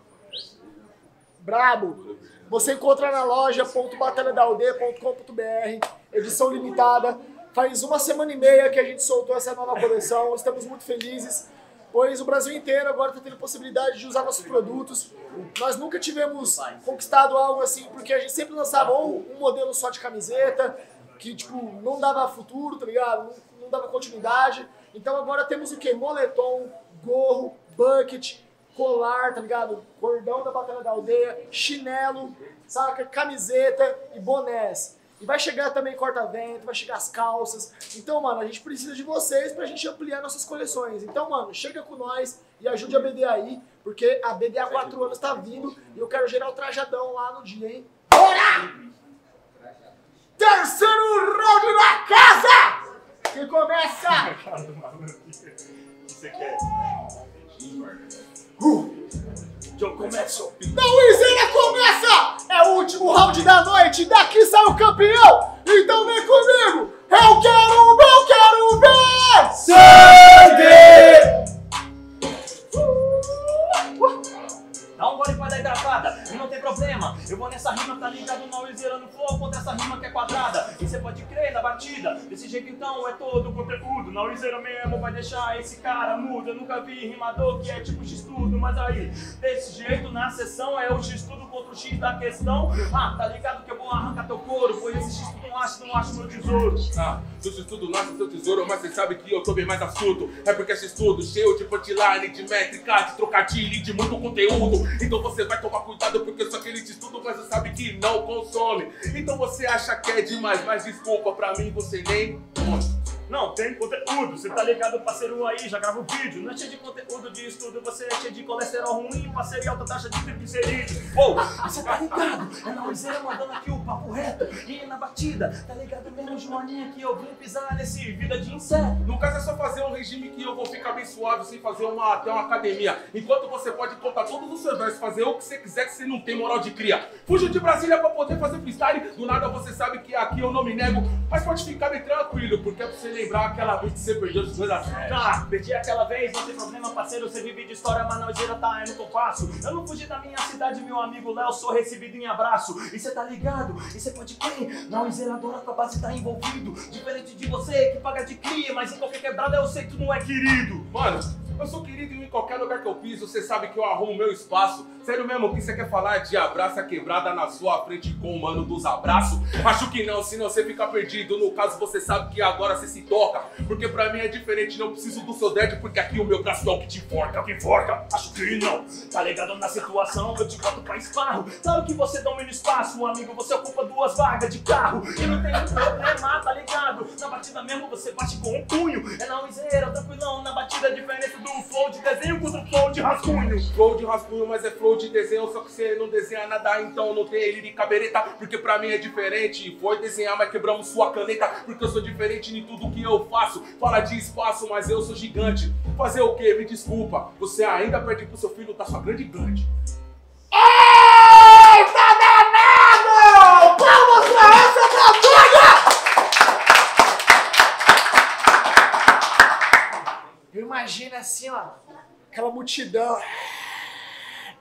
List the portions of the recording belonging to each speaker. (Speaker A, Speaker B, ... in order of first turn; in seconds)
Speaker A: 1.4-48.7, 50.4-52.8, 53.3-54.4, 60.7-69.7, 210.5-215.8, 220.5-221.8, 222.3-224.1
Speaker B: 54.2-56.6, 58.6-58.9, 59.7-60.5, 69.6-71.3, 75.0-96.8, 113.3-129.0, 144.9-160.9, 177.4-193.7
Speaker C: 57.6-57.9, 60.4-60.9, 96.9-112.9, 129.0-145.3, 160.9-177.5, 193.7-209.7